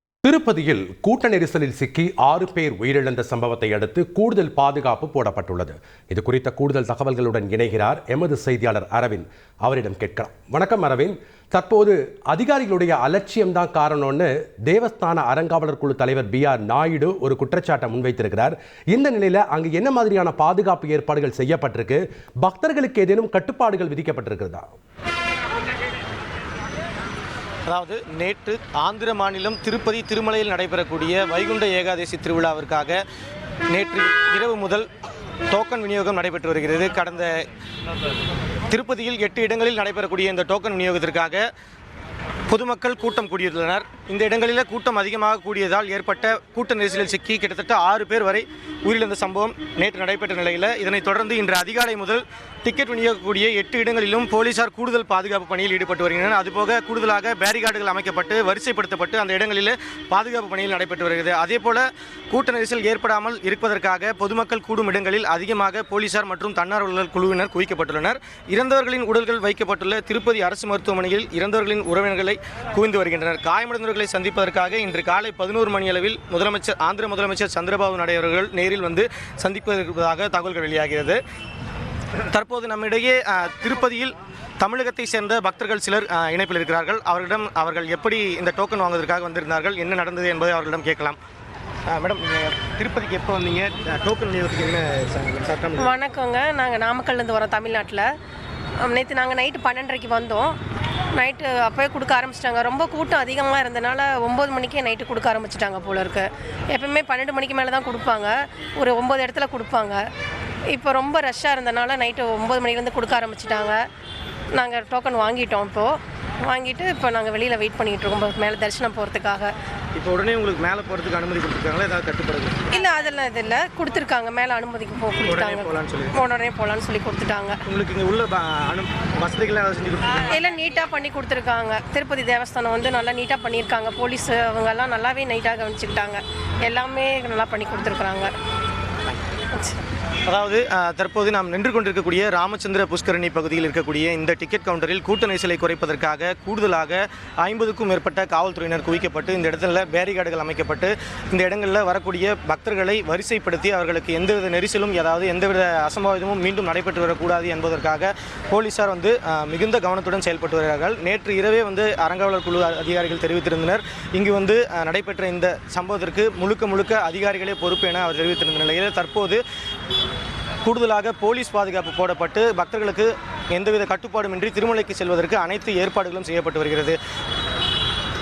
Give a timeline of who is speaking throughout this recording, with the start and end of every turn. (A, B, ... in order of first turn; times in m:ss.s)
0:00.2-0:24.7 A
0:27.7-0:33.0 B
0:33.7-0:34.9 B
0:35.5-0:37.5 B
0:38.7-0:41.4 B
0:42.5-1:21.2 B
1:22.3-1:31.2 B
1:31.9-1:36.0 B
1:35.8-1:38.1 C
1:38.8-1:40.6 C
1:41.2-1:50.0 C
1:50.7-1:53.8 C
1:54.5-1:59.5 C
2:00.0-2:02.6 B
2:02.7-2:07.6 C
2:05.3-2:06.2 B
2:07.7-2:10.3 B
2:10.3-2:18.3 C
2:19.5-2:19.8 C
2:20.3-2:49.4 B
2:50.6-2:57.0 B